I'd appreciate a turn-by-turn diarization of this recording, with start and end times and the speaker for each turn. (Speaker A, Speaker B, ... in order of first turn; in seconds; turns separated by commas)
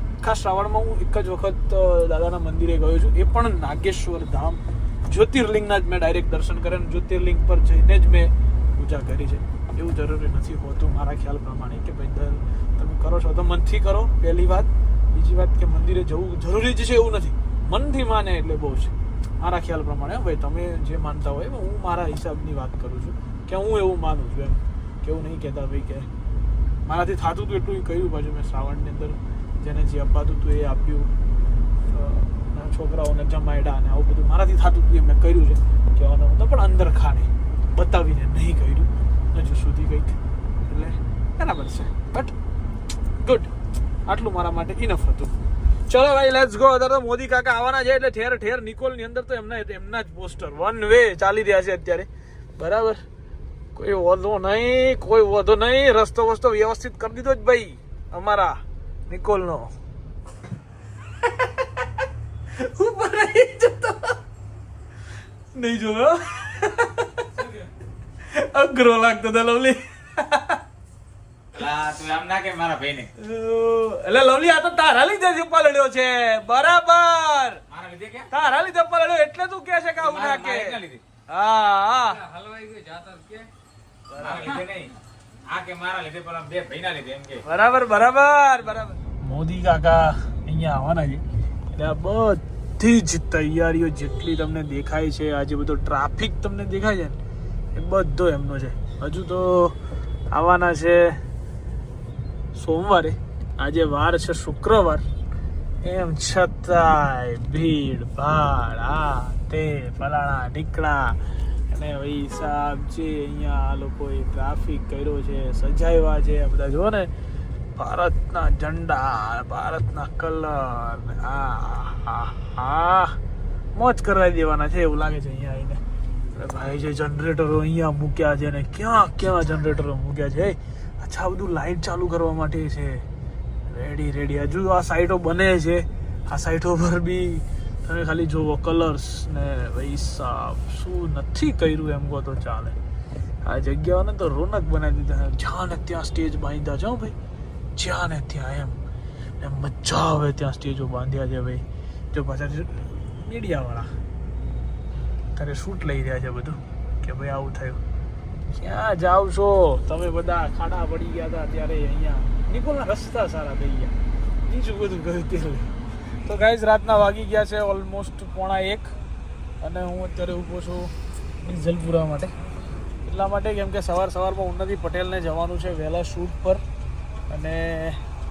Speaker A: 0.2-26.1, Speaker A: 26.9-31.1, Speaker A: 31.9-42.3, Speaker A: 43.2-43.5, Speaker A: 44.1-45.4, Speaker A: 45.9-53.0, Speaker A: 53.8-59.7, Speaker A: 62.6-64.2, Speaker A: 65.5-67.3, Speaker A: 68.3-70.6, Speaker B: 71.5-73.1, Speaker A: 73.2-77.6, Speaker B: 77.7-78.3, Speaker A: 78.3-82.2, Speaker B: 80.0-81.0, Speaker B: 82.2-83.5, Speaker A: 84.1-84.6, Speaker B: 84.2-84.9, Speaker B: 85.5-87.4, Speaker A: 87.5-97.2, Speaker A: 97.8-99.8, Speaker A: 100.3-101.2, Speaker A: 102.5-105.0, Speaker A: 105.8-117.1, Speaker A: 117.8-123.2, Speaker A: 123.8-125.8, Speaker A: 126.3-133.1, Speaker A: 133.7-142.8, Speaker A: 143.4-147.2, Speaker A: 147.8-148.8, Speaker A: 149.4-153.9, Speaker A: 155.3-157.8, Speaker A: 158.5-163.9, Speaker A: 164.5-165.7, Speaker A: 166.2-168.9, Speaker A: 169.6-172.3, Speaker A: 173.0-176.6, Speaker A: 177.3-178.0